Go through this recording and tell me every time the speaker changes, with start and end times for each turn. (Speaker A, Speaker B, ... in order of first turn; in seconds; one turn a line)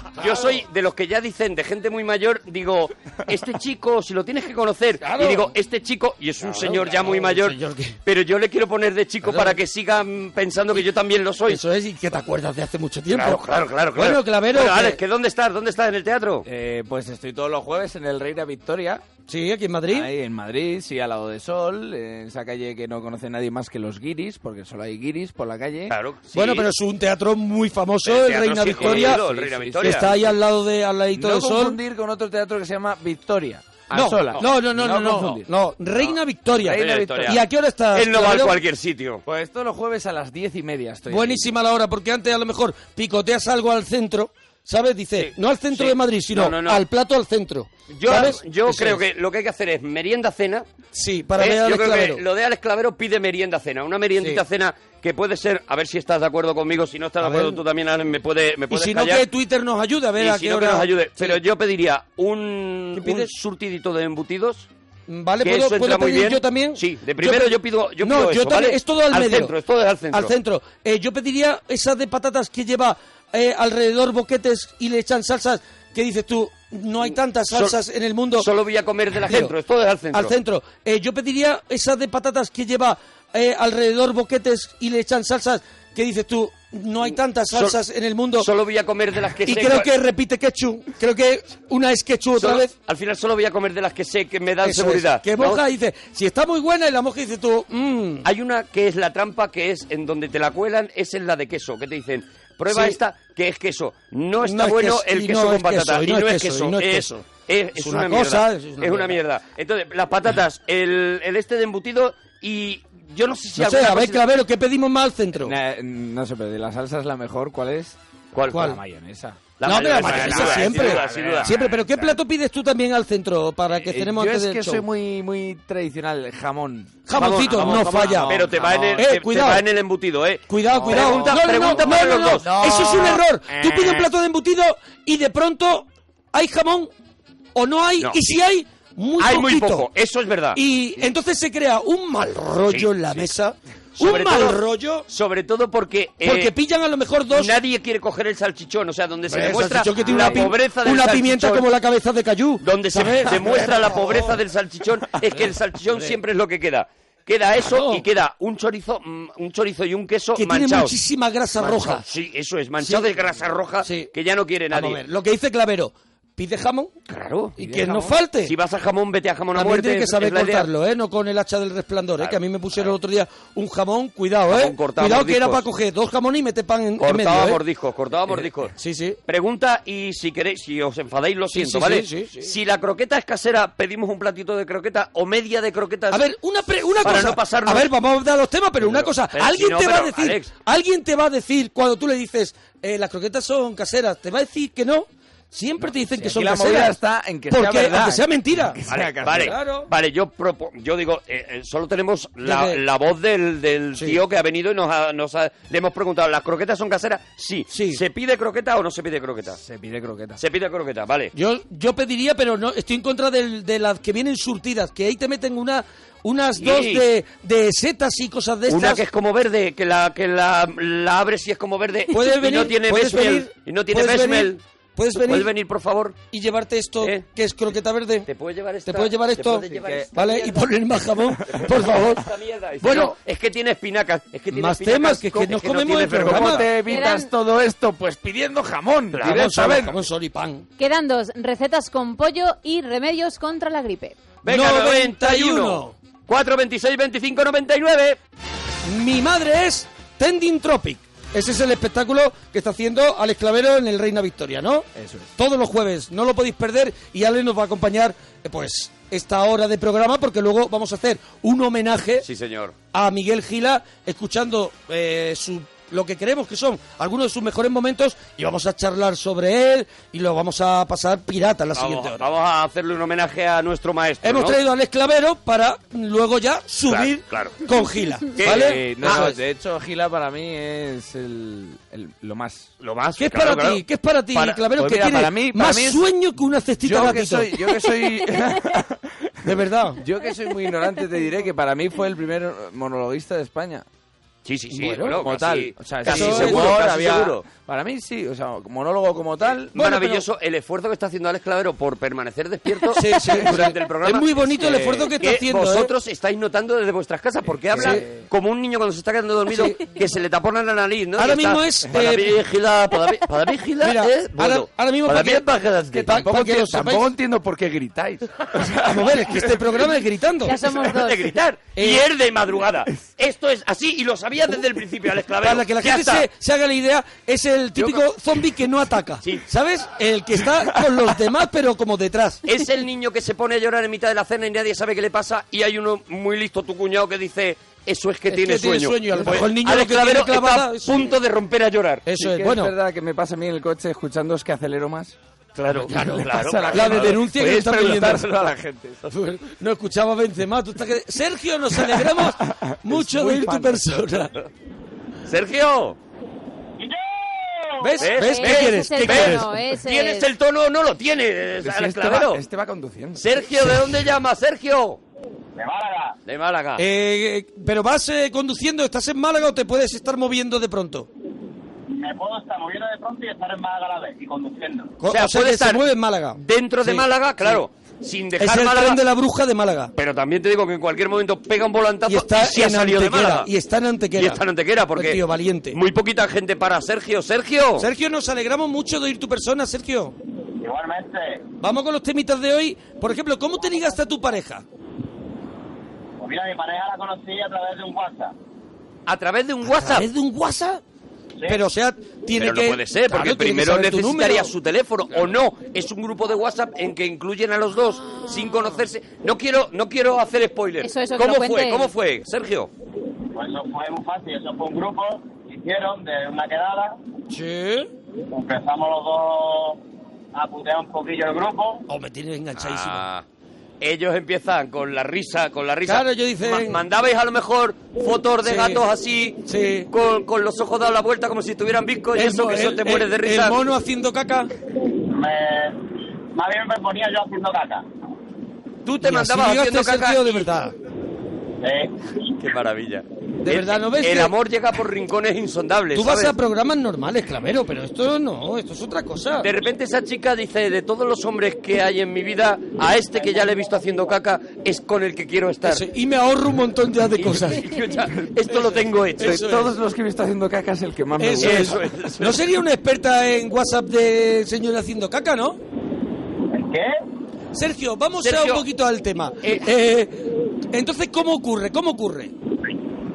Speaker A: 0.1-11.6
Speaker B: 5.0-5.5
Speaker B: 6.5-8.0
Speaker B: 9.2-9.6
Speaker B: 11.5-13.4
Speaker A: 13.1-16.4
Speaker B: 13.9-15.0
Speaker C: 16.4-19.0
Speaker B: 19.3-20.1
Speaker C: 19.9-25.9
Speaker A: 25.9-26.7
Speaker B: 26.3-29.2
Speaker A: 28.1-30.1
Speaker C: 28.8-30.3
Speaker B: 29.8-31.8
Speaker C: 31.1-35.5
Speaker B: 33.9-38.6
Speaker C: 36.6-37.4
Speaker A: 36.7-37.4
Speaker A: 37.9-39.2
Speaker C: 39.2-41.5
Speaker B: 41.1-49.0
Speaker A: 45.1-46.8
Speaker A: 47.9-50.6
Speaker B: 50.9-52.2
Speaker A: 51.4-59.2
Speaker B: 57.2-57.6
Speaker B: 58.7-61.4
Speaker A: 60.2-64.7
Speaker B: 62.9-63.3
Speaker B: 65.1-69.5
Speaker A: 65.4-70.3
Speaker B: 70.1-78.5
Speaker A: 78.4-80.3
Speaker B: 79.3-79.5
Speaker B: 80.1-88.5
Speaker A: 87.5-87.8
Speaker A: 88.4-89.9
Speaker B: 89.4-92.7
Speaker A: 92.4-95.6
Speaker B: 94.6-98.3
Speaker A: 98.2-114.2
Speaker B: 102.7-103.0
Speaker B: 104.4-107.2
Speaker B: 107.8-109.2
Speaker B: 113.6-115.5
Speaker C: 115.4-118.0
Speaker A: 118.3-118.8
Speaker C: 118.5-122.2
Speaker B: 118.5-118.8
Speaker A: 119.6-121.5
Speaker B: 119.6-124.8
Speaker C: 123.8-129.2
Speaker B: 127.1-128.4
Speaker A: 127.2-133.7
Speaker B: 129.0-129.6
Speaker B: 130.5-136.9
Speaker C: 130.7-133.2
Speaker B: 137.5-139.9
Speaker A: 138.0-138.4
Speaker A: 139.2-140.6
Speaker B: 140.5-145.1
Speaker A: 142.7-143.3
Speaker A: 144.0-146.5
Speaker B: 146.2-147.5
Speaker A: 147.3-151.7
Speaker B: 149.3-154.4
Speaker A: 152.6-160.9
Speaker B: 155.3-156.2
Speaker B: 157.7-158.0
Speaker B: 160.4-162.0
Speaker A: 161.6-165.0
Speaker B: 162.8-163.1
Speaker B: 163.8-164.1
Speaker B: 164.7-166.9
Speaker A: 167.1-167.6
Speaker B: 167.6-168.5
Speaker C: 167.6-168.2
Speaker A: 168.4-170.7
Speaker B: 169.5-177.6
Speaker A: 172.2-172.9
Speaker A: 174.5-175.6
Speaker A: 177.0-178.8
Speaker B: 178.8-179.2
Speaker A: 179.3-186.2
Speaker B: 181.5-182.5
Speaker B: 186.1-197.0
Speaker A: 187.0-187.9
Speaker A: 188.9-190.5
Speaker C: 196.0-199.6
Speaker B: 197.5-199.9
Speaker A: 198.9-209.6
Speaker B: 202.4-202.8
Speaker B: 207.7-208.0
Speaker C: 209.5-210.4
Speaker A: 210.4-211.3
Speaker B: 211.3-219.0
Speaker A: 216.6-217.0
Speaker A: 218.7-224.6
Speaker B: 222.1-225.5
Speaker A: 225.1-226.2
Speaker B: 226.3-228.3
Speaker A: 228.3-230.7
Speaker B: 228.9-232.2
Speaker C: 229.7-230.1
Speaker A: 231.5-236.8
Speaker B: 232.8-233.1
Speaker B: 234.5-236.7
Speaker C: 236.1-240.0
Speaker D: 236.9-237.3
Speaker A: 239.1-239.8
Speaker B: 239.2-240.6
Speaker D: 240.8-244.2
Speaker A: 244.4-248.2
Speaker B: 244.5-245.9
Speaker B: 248.9-262.2
Speaker C: 254.9-255.3
Speaker A: 262.2-262.8
Speaker B: 262.9-272.2
Speaker A: 271.8-274.6
Speaker B: 274.2-279.4
Speaker A: 276.9-277.6
Speaker A: 278.4-279.3
Speaker C: 278.4-282.7
Speaker A: 282.8-283.8
Speaker B: 283.2-287.7
Speaker C: 284.6-286.1
Speaker C: 286.8-293.9
Speaker B: 289.4-290.0
Speaker A: 294.4-297.4
Speaker B: 294.7-295.2
Speaker C: 295.0-300.2
Speaker B: 296.1-296.8
Speaker A: 299.7-316.1
Speaker B: 302.9-305.9
Speaker C: 304.6-305.1
Speaker C: 307.7-308.2
Speaker B: 307.8-308.0
Speaker B: 309.5-309.8
Speaker B: 311.2-312.3
Speaker B: 313.8-315.4
Speaker C: 315.9-319.8
Speaker B: 316.0-317.1
Speaker B: 318.9-320.6
Speaker D: 320.4-321.3
Speaker A: 320.7-326.3
Speaker B: 321.8-322.0
Speaker B: 325.4-332.4
Speaker C: 330.6-331.1
Speaker A: 332.4-342.0
Speaker B: 338.3-341.1
Speaker B: 342.1-342.7
Speaker C: 342.2-345.1
Speaker A: 345.6-347.2
Speaker C: 345.8-349.1
Speaker B: 345.9-348.3
Speaker B: 349.1-354.3
Speaker C: 351.9-354.0
Speaker A: 355.2-356.0
Speaker E: 356.8-358.0
Speaker B: 357.8-359.5
Speaker A: 358.0-362.4
Speaker D: 358.1-360.3
Speaker C: 361.6-364.0
Speaker A: 363.1-365.0
Speaker E: 365.6-366.2
Speaker A: 366.2-366.8
Speaker B: 366.8-371.1
Speaker E: 371.9-374.9
Speaker B: 375.0-377.6
Speaker A: 375.1-375.8
Speaker A: 376.4-379.0
Speaker B: 378.4-379.9
Speaker A: 380.0-383.5
Speaker B: 382.1-384.4
Speaker A: 384.1-385.2
Speaker B: 384.9-385.8
Speaker A: 385.7-387.9
Speaker B: 387.8-390.1
Speaker E: 390.6-391.4
Speaker B: 391.6-394.6
Speaker E: 396.2-398.3
Speaker A: 399.1-400.1
Speaker B: 399.6-400.8
Speaker B: 401.5-404.5
Speaker A: 402.4-412.7
Speaker B: 408.2-408.7
Speaker D: 410.8-411.9
Speaker E: 413.3-417.0
Speaker B: 417.3-417.9
Speaker E: 418.3-419.8
Speaker E: 420.3-421.8
Speaker B: 421.9-423.0
Speaker A: 422.6-423.2
Speaker A: 423.8-433.6
Speaker B: 425.9-426.8
Speaker B: 428.4-428.8
Speaker B: 429.5-429.9
Speaker B: 432.1-434.5
Speaker E: 435.0-435.8
Speaker E: 436.3-437.9
Speaker A: 438.9-440.5
Speaker B: 439.0-440.7
Speaker E: 441.6-441.9
Speaker A: 442.4-446.4
Speaker B: 443.4-444.3
Speaker B: 445.9-449.5
Speaker A: 449.4-455.9
Speaker B: 455.6-457.6
Speaker A: 457.2-459.7
Speaker C: 458.0-462.0
Speaker B: 459.2-459.7
Speaker B: 461.2-465.6
Speaker A: 461.4-462.4
Speaker E: 466.5-466.9
Speaker B: 467.5-470.2
Speaker A: 468.2-468.6
Speaker B: 470.7-472.3